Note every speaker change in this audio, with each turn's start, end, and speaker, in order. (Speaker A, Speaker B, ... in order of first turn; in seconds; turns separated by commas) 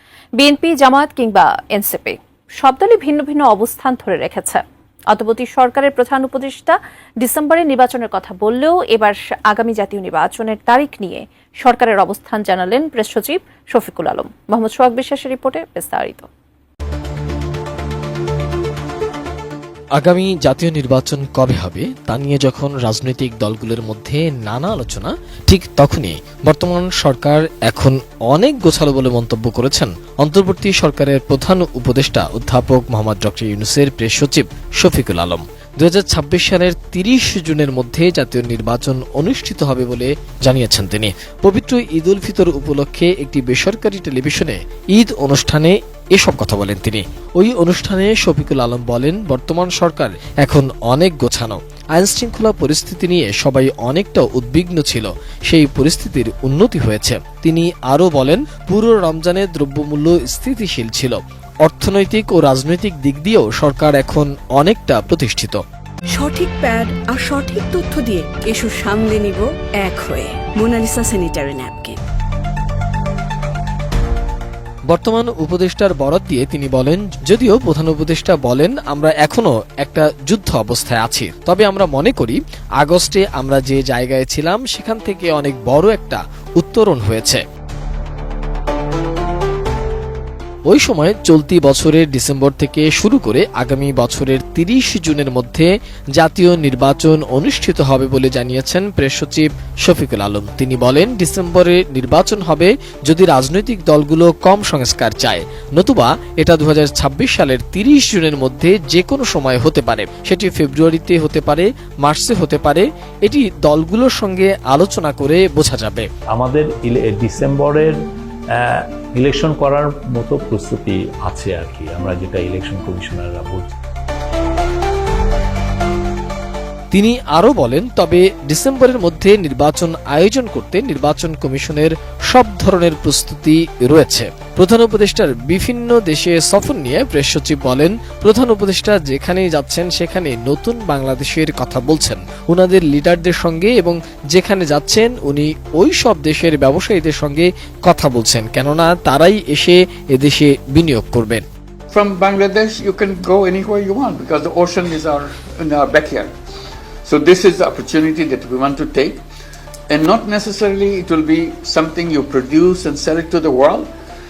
Speaker A: 0.4-16.3, Speaker B: 20.0-65.6, Speaker C: 66.1-72.0, Speaker B: 74.9-87.4, Speaker B: 90.7-116.1, Speaker D: 116.3-118.0, Speaker D: 118.5-123.8, Speaker B: 126.9-151.4, Speaker E: 151.9-156.3, Speaker E: 157.1-159.2, Speaker E: 159.9-163.9